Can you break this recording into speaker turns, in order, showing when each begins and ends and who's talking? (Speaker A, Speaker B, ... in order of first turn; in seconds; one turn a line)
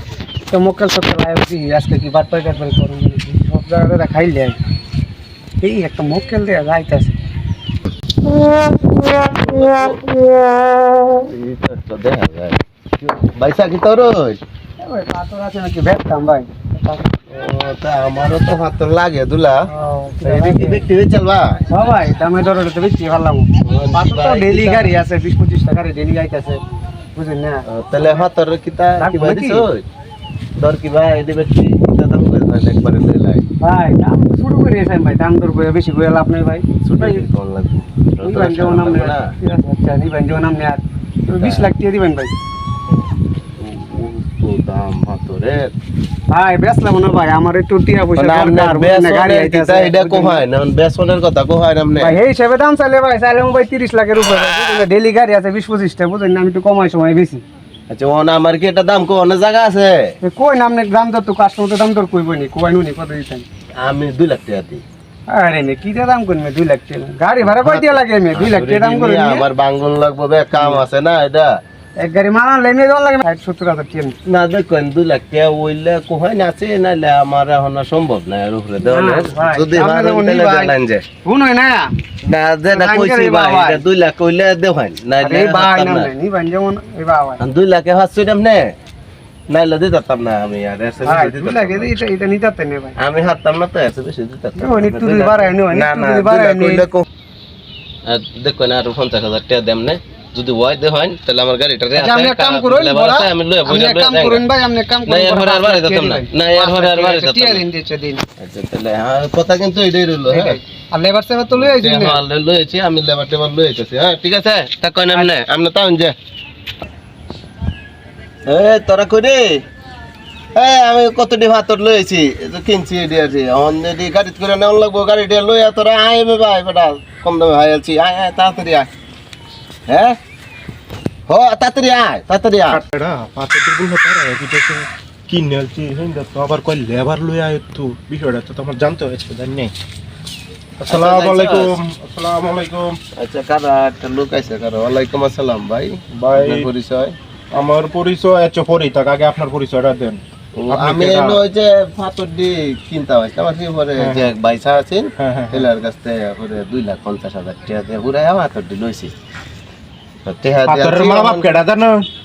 Speaker A: 0.5-4.6
Speaker A: 5.6-7.2
Speaker B: 9.0-10.0
Speaker B: 11.2-14.4
Speaker A: 14.8-17.1
Speaker B: 17.3-19.7
Speaker A: 19.7-20.8
Speaker B: 20.2-22.0
Speaker A: 21.7-26.6
Speaker B: 23.6-24.9
Speaker A: 27.1-28.2
Speaker B: 27.7-29.8
Speaker A: 29.0-29.6
Speaker B: 30.6-33.5
Speaker A: 33.6-37.3
Speaker B: 36.8-39.3
Speaker A: 38.2-42.3
Speaker B: 41.3-41.7
Speaker B: 43.6-45.7
Speaker A: 46.3-50.4
Speaker B: 48.2-52.2
Speaker A: 52.0-57.4
Speaker B: 57.9-60.2
Speaker A: 60.2-63.5
Speaker B: 63.8-64.8
Speaker A: 65.3-69.5
Speaker B: 67.4-71.5
Speaker A: 70.5-70.8
Speaker A: 72.0-74.2
Speaker B: 74.3-81.0
Speaker A: 78.8-81.9
Speaker B: 82.2-86.1
Speaker A: 82.7-83.8
Speaker A: 85.2-87.4
Speaker B: 87.4-88.7
Speaker B: 89.5-91.9
Speaker A: 91.0-93.0
Speaker B: 93.0-97.1
Speaker A: 94.6-96.9
Speaker B: 98.0-104.4
Speaker A: 102.0-108.2
Speaker B: 105.1-107.6
Speaker B: 108.4-110.6
Speaker A: 110.3-112.2
Speaker B: 111.5-116.2
Speaker B: 118.5-119.6
Speaker B: 120.5-128.9
Speaker B: 129.9-130.2
Speaker B: 131.3-132.8
Speaker C: 132.7-139.7
Speaker B: 140.8-141.8
Speaker C: 140.9-143.0
Speaker B: 143.2-147.1
Speaker C: 146.2-146.7
Speaker C: 147.5-151.4
Speaker B: 150.6-159.1
Speaker C: 154.0-154.3
Speaker C: 155.2-155.7
Speaker B: 160.2-161.6
Speaker C: 160.7-162.0